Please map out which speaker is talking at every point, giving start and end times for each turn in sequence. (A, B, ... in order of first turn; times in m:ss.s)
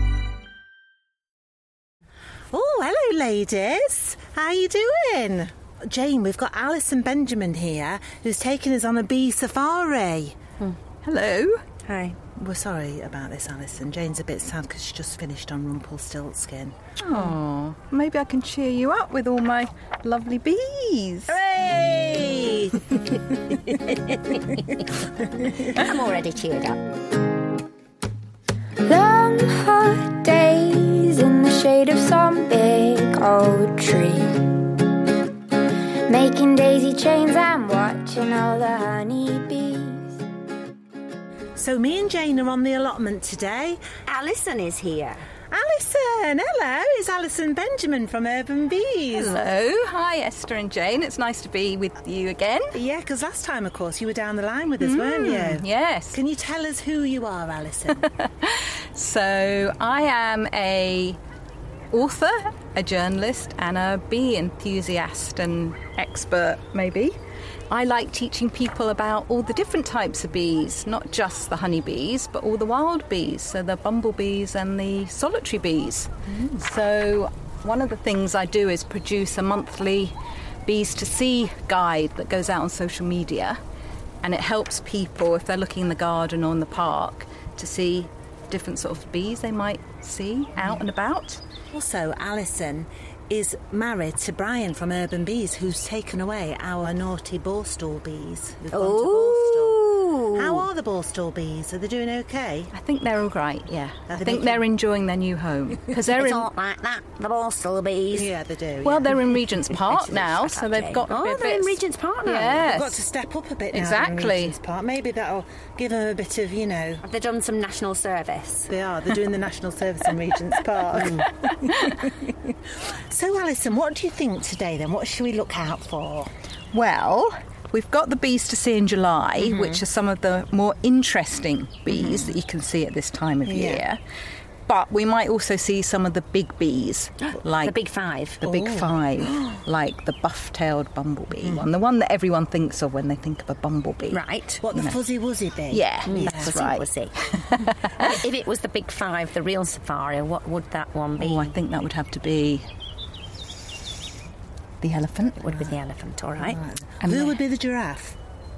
0:02.5-0:10.4 A
0:11.0-0:11.6 B
0:11.8-0:12.2 C
0:12.3-0:17.2 A
0:17.0-0:21.4 B
0:21.3-0:23.0 A
0:23.7-0:24.6 C
0:25.6-0:26.8 C
0:28.8-0:34.7 D
0:36.1-0:40.1 D
0:41.6-0:43.8 A
0:44.0-0:45.3 C
0:45.5-0:49.4 A
0:49.1-0:52.8 B
0:52.7-0:58.1 A
0:54.8-0:56.2 B
0:58.0-1:01.2 B
1:01.9-1:07.2 B
1:07.7-1:23.6 B
1:16.3-1:16.6 A
1:24.2-1:31.4 B
1:31.7-1:42.7 A
1:38.7-1:40.7 C
1:42.7-1:46.5 B
1:44.1-1:44.6 A
1:46.0-1:48.3 C
1:48.1-1:49.2 A
1:48.8-1:53.0 B
1:49.7-1:52.7 C
1:52.6-1:57.0 A
1:53.7-1:54.6 B
1:57.0-1:58.7 C
1:58.7-2:02.5 A
2:01.0-2:01.2 C
2:03.0-2:06.3 A
2:06.7-2:14.0 B
2:09.4-2:09.8 A
2:11.9-2:12.3 A
2:13.4-2:13.8 A
2:14.7-2:17.8 B
2:17.2-2:18.4 C
2:18.4-2:24.2 B
2:18.4-2:19.6 A
2:24.1-2:24.6 C
2:24.6-2:26.5 A
2:24.7-2:25.0 B
2:25.7-2:27.9 B
2:26.0-2:27.2 C
2:27.9-2:31.5 C
2:31.2-2:32.7 B
2:34.8-2:35.6 B
2:35.4-2:36.6 C
2:36.4-2:38.2 A
2:37.0-2:37.4 B